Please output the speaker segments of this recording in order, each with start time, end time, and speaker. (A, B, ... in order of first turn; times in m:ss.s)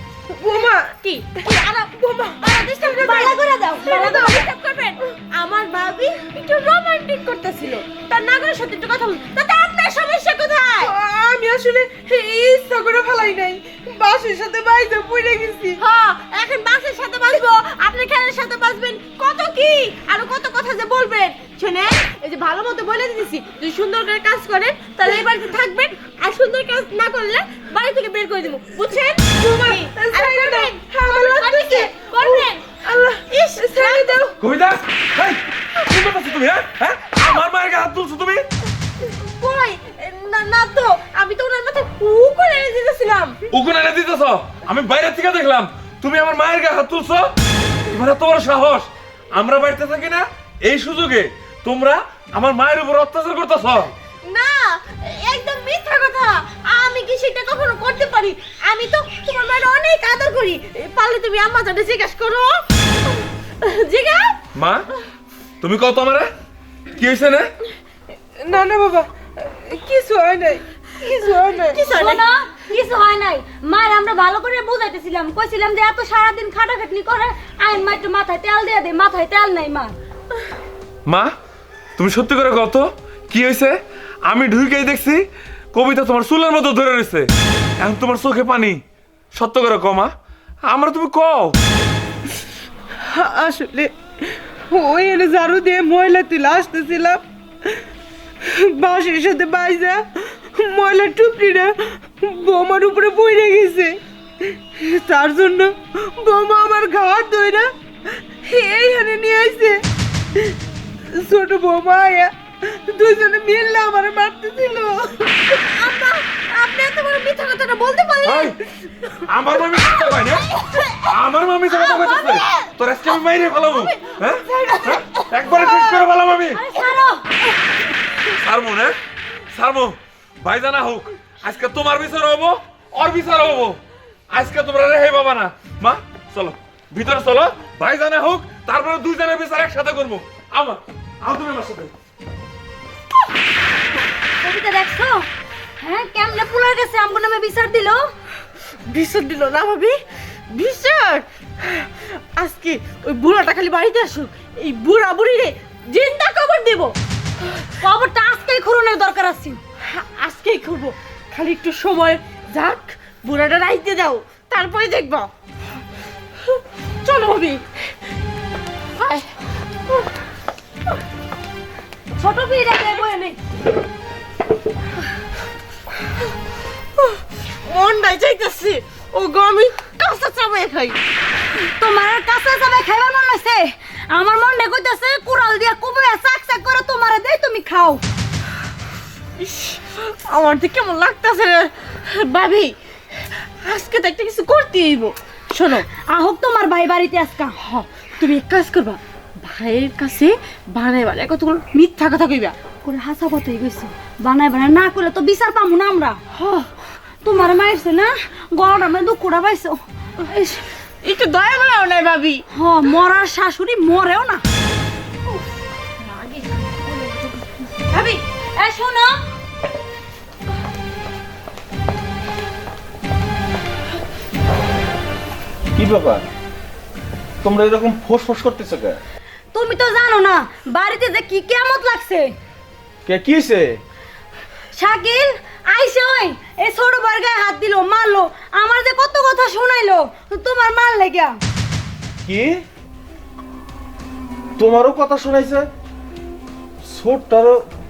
0:00.4-0:03.3 A
0:01.0-0:01.9 B
0:02.4-0:03.3 B
0:03.0-0:04.5 C
0:03.8-0:10.9 B
0:10.8-0:15.8 A
0:15.8-0:32.6 B
0:29.4-0:34.3 A
0:33.3-0:34.3 B
0:34.4-0:38.5 D
0:39.2-0:43.4 B
0:43.5-0:47.3 D
0:47.9-0:53.9 D
0:54.3-1:02.6 B
1:03.6-1:04.3 B
1:04.6-1:04.9 D
1:05.6-1:06.3 D
1:07.0-1:07.5 D
1:08.4-1:09.1 A
1:09.7-1:12.0 A
1:11.7-1:12.2 B
1:11.9-1:20.0 C
1:21.1-1:21.3 D
1:22.0-1:28.8 D
1:29.3-1:30.1 D
1:30.7-1:31.6 D
1:33.1-1:33.9 A
1:34.7-1:37.2 A
1:38.7-1:40.0 A
1:40.6-1:44.0 A
1:44.8-1:47.7 A
1:48.5-1:49.8 A
1:51.1-1:52.3 A
1:52.9-1:55.3 A
1:56.0-1:58.4 B
1:58.2-1:58.6 D
1:59.3-2:00.5 D
2:01.0-2:06.6 D
2:06.5-2:07.2 C
2:08.3-2:08.9 D
2:09.5-2:21.9 D
2:24.4-2:25.3 C
2:25.8-2:28.1 C
2:28.9-2:30.0 B
2:30.5-2:31.3 B
2:32.4-2:36.9 B
2:37.8-2:39.6 C
2:39.9-2:45.3 B
2:47.0-2:47.6 B
2:52.2-2:53.4 C
2:57.7-3:01.0 B
3:01.8-3:08.0 C
3:09.4-3:12.8 B
3:13.6-3:15.8 B
3:16.1-3:17.6 C
3:17.6-3:22.6 B
3:22.8-3:26.2 C
3:26.4-3:26.7 B
3:27.2-3:29.8 C
3:30.3-3:32.4 B
3:32.5-3:34.4 C
3:36.2-3:36.8 B
3:37.9-3:39.2 C
3:45.7-3:46.2 E
3:47.4-3:49.0 E
3:49.5-3:52.3 C
3:53.1-3:53.8 E
3:54.8-4:01.4 C
4:02.3-4:02.6 E
4:04.6-4:05.7 E
4:06.9-4:07.6 E